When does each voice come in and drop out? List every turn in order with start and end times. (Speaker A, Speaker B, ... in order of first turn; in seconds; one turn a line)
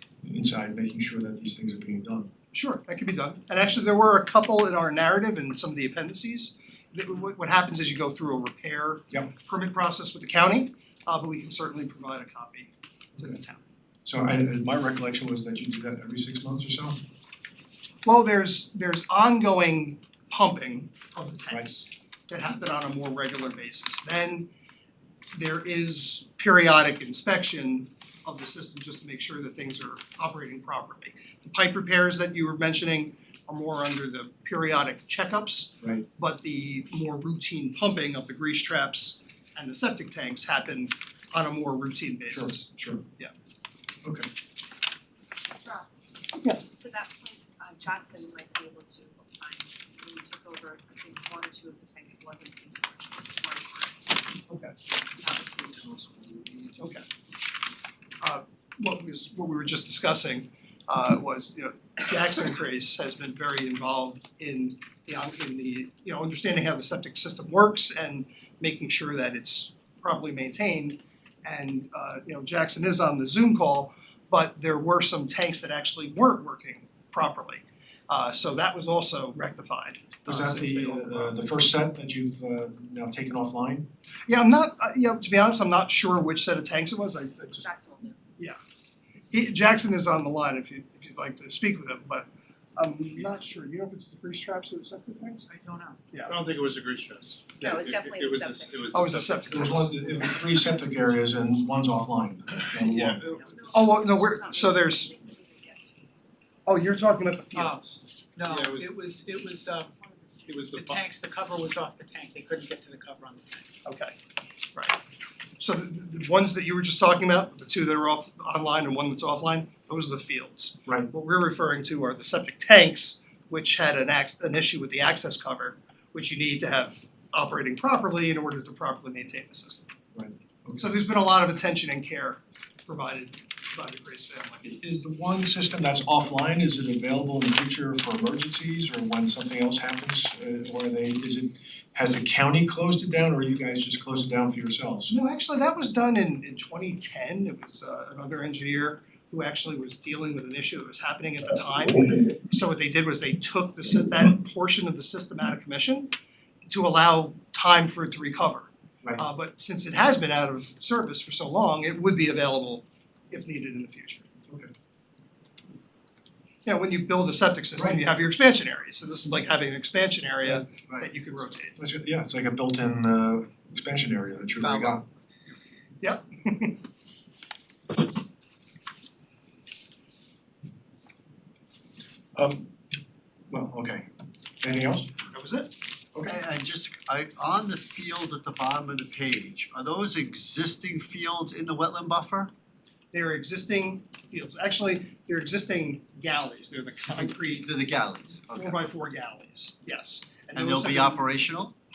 Speaker A: 0.2-2.3
Speaker B: 2.5-13.6
Speaker A: 14.1-17.0
Speaker B: 18.1-24.5
Speaker B: 25.3-43.3
Speaker A: 42.3-43.0
Speaker A: 44.0-44.3
Speaker C: 45.6-45.9
Speaker C: 46.5-54.4
Speaker B: 54.5-54.8
Speaker C: 54.9-56.5
Speaker B: 56.8-57.0
Speaker B: 58.2-81.5
Speaker A: 80.2-83.9
Speaker B: 84.3-87.7
Speaker C: 87.6-88.2
Speaker B: 89.3-95.5
Speaker D: 95.5-96.0
Speaker E: 96.2-99.9
Speaker C: 97.6-98.9
Speaker B: 98.9-100.5
Speaker A: 99.5-103.2
Speaker E: 102.8-103.4
Speaker C: 103.2-106.4
Speaker B: 103.7-105.1
Speaker B: 106.7-107.8
Speaker D: 107.5-109.9
Speaker E: 108.5-109.0
Speaker C: 110.0-110.7
Speaker E: 110.5-111.1
Speaker D: 110.7-113.7
Speaker B: 113.8-114.2
Speaker B: 114.7-115.0
Speaker B: 115.6-129.9
Speaker A: 130.2-130.8
Speaker B: 130.8-134.6
Speaker A: 134.6-145.1
Speaker B: 145.1-156.1
Speaker B: 156.7-164.3
Speaker B: 166.7-171.8
Speaker A: 171.8-175.0
Speaker B: 174.6-175.0
Speaker B: 176.0-176.8
Speaker A: 182.3-182.7
Speaker A: 183.5-184.1
Speaker A: 184.6-185.1
Speaker B: 185.3-185.7
Speaker F: 186.2-192.5
Speaker B: 193.1-197.7
Speaker F: 197.1-198.8
Speaker B: 198.6-201.2
Speaker F: 200.5-201.7